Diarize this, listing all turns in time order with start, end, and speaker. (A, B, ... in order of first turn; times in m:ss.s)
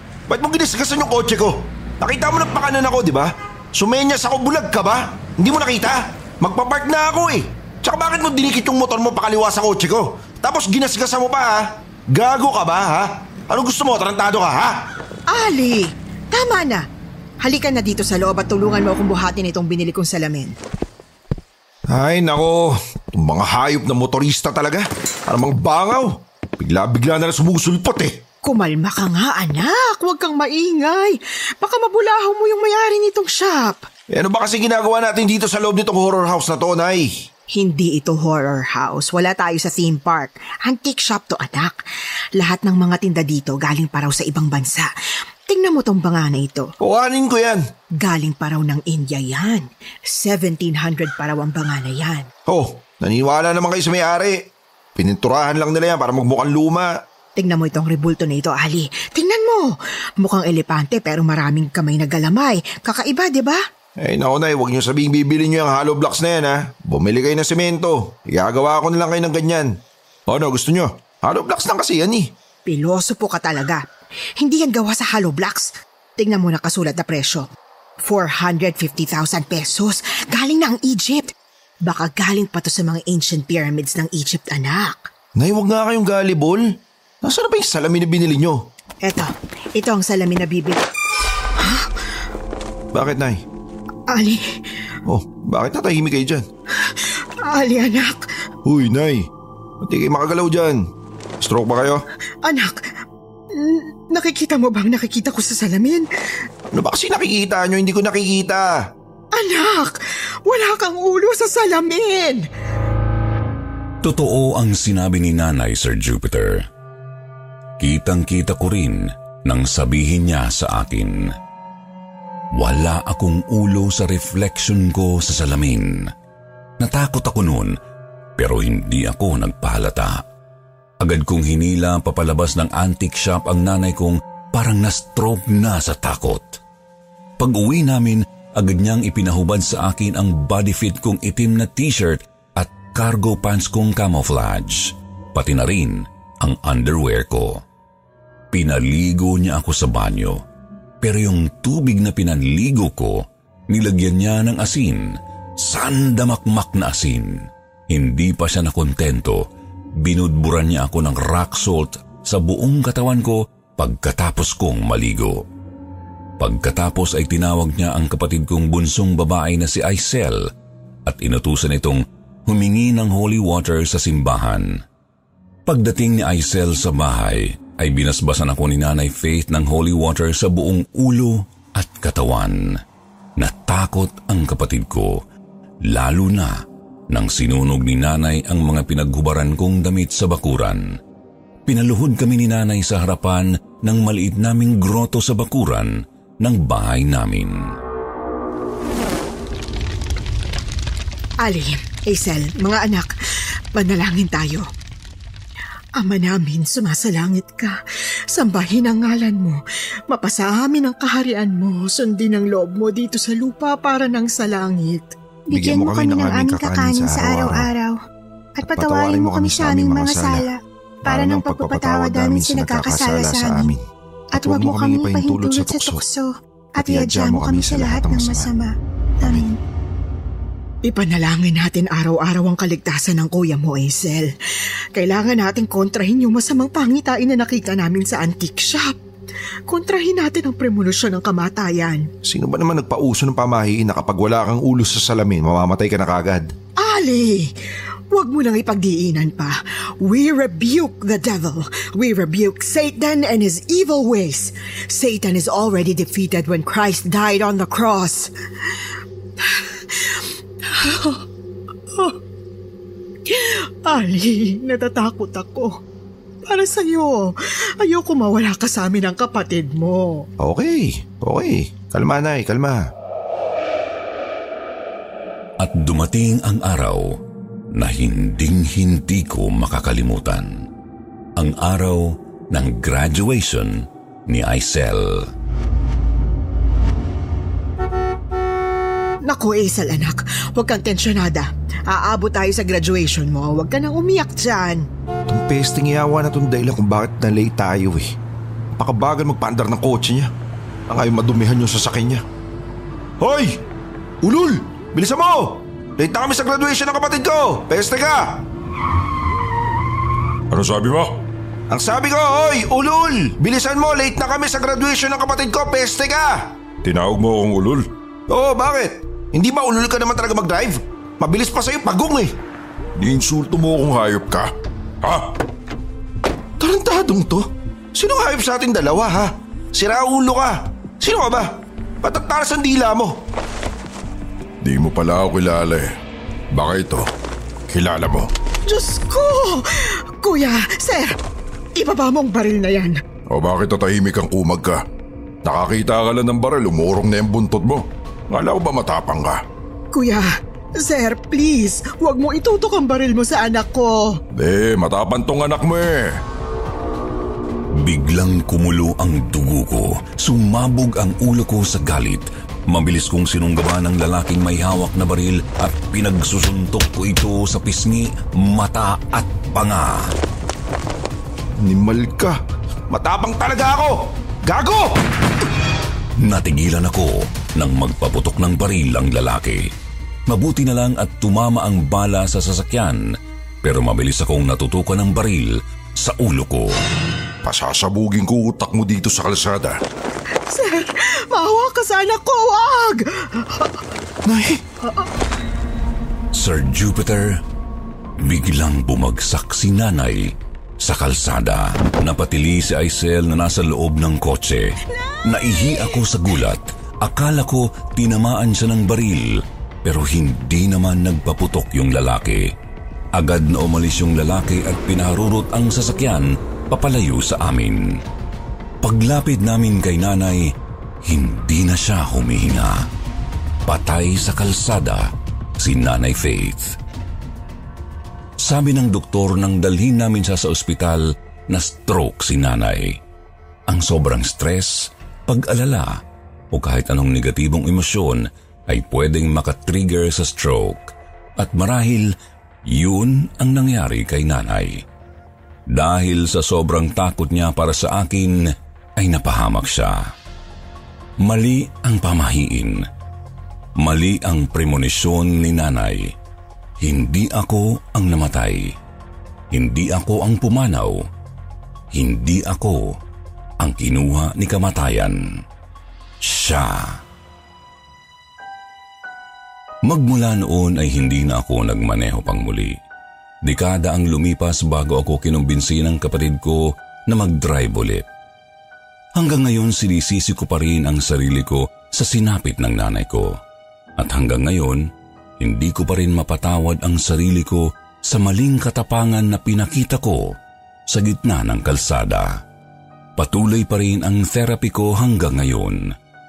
0:00.3-0:14.8 A
0:15.3-0:16.8 B
0:17.4-0:20.5 B
0:21.9-0:28.1 A
0:28.4-0:33.9 B
0:34.1-0:37.1 A
0:37.5-0:41.8 B
0:42.4-0:44.9 B
0:45.5-0:46.7 B
0:46.8-0:47.6 A
0:48.0-0:52.3 B
0:52.5-0:54.4 A
0:55.0-0:56.9 A
0:57.4-1:03.6 B
1:04.0-1:09.7 A
1:10.3-1:12.3 A
1:12.7-1:13.8 B
1:14.4-1:17.4 B
1:18.0-1:21.3 B
1:21.8-1:25.1 B
1:25.4-1:26.6 A
1:27.2-1:28.6 A
1:29.0-1:30.8 B
1:31.6-1:31.9 B
1:32.9-1:33.4 A
1:34.1-1:34.4 B
1:35.1-1:36.4 A
1:36.9-1:38.2 B
1:38.6-1:39.3 A
1:39.8-1:40.8 A
1:41.4-1:42.0 A
1:42.4-1:42.8 B
1:43.5-1:46.0 B
1:46.7-1:48.7 A
1:49.3-1:52.4 B
1:54.0-1:56.6 C
1:57.8-2:01.2 C
2:02.5-2:06.0 C
2:06.8-2:07.7 C
2:08.4-2:10.2 C
2:11.0-2:16.6 C
2:17.4-2:27.6 C
2:28.5-2:30.4 C
2:31.0-2:39.4 C
2:40.0-2:45.4 C
2:46.4-2:50.4 C
2:51.0-2:54.8 C
2:55.6-3:02.6 C
3:03.4-3:05.2 C
3:05.8-3:06.6 C
3:07.1-3:10.8 C
3:11.6-3:17.5 C
3:21.4-3:23.1 B
3:23.7-3:24.7 B
3:26.0-3:27.8 B
3:28.3-3:35.2 B
3:35.5-3:38.0 D
3:35.5-3:37.7 A
3:38.6-3:43.7 D
3:38.6-3:40.5 A
3:41.0-3:43.8 A
3:44.3-3:48.7 D
3:44.3-3:46.0 A
3:46.8-3:48.5 A
3:49.2-3:49.6 D
3:50.8-3:54.3 B
3:54.9-3:59.0 B
3:59.7-4:02.1 B
4:02.2-4:06.5 A
4:06.8-4:07.5 B
4:08.1-4:18.3 B
4:19.4-4:21.2 B
4:23.3-4:25.8 B
4:26.5-4:30.3 B
4:30.4-4:32.8 A
4:35.6-4:37.1 C
4:37.7-4:40.7 C
4:41.4-4:45.3 C
4:49.3-4:54.9 B
4:55.3-4:58.1 A
4:58.8-5:00.3 A
5:00.9-5:02.2 A
5:03.2-5:03.6 A
5:04.2-5:08.4 A
5:10.5-5:11.2 E
5:11.7-5:16.5 A
5:16.8-5:17.9 E
5:18.3-5:22.3 A
5:23.0-5:24.5 E
5:25.0-5:25.3 E
5:26.6-5:33.2 A
5:34.6-5:35.9 E
5:36.5-5:37.0 E
5:37.7-5:38.3 E
5:38.7-5:41.1 B
5:41.8-5:43.0 B
5:43.3-5:44.8 E
5:45.4-5:49.4 E
5:49.9-5:54.2 B
5:54.4-5:56.2 E
5:57.8-6:10.1 C
6:11.6-6:12.4 A
6:12.9-6:15.0 A
6:16.2-6:19.6 C
6:20.3-6:23.0 C
6:23.6-6:26.7 C
6:27.4-6:29.7 E
6:30.5-6:33.8 B
6:34.3-6:34.6 A
6:36.3-6:37.4 C
6:38.2-6:52.5 C
6:53.1-6:58.0 C
6:58.8-7:02.9 C
7:03.6-7:06.8 C
7:08.4-7:13.0 C
7:13.7-7:16.0 C
7:16.5-7:22.1 C
7:22.6-7:24.8 C
7:25.7-7:28.4 C
7:29.0-7:30.1 C
7:31.2-7:32.8 C
7:33.8-7:36.1 C
7:36.8-7:38.7 C
7:39.5-7:41.0 C
7:41.9-7:43.0 C
7:43.6-7:45.2 C
7:46.2-7:47.0 C
7:49.8-7:52.8 C
7:53.4-7:58.1 C
7:59.2-8:03.4 C
8:04.0-8:04.8 C
8:05.4-8:10.4 C
8:10.9-8:12.4 C
8:13.2-8:15.9 C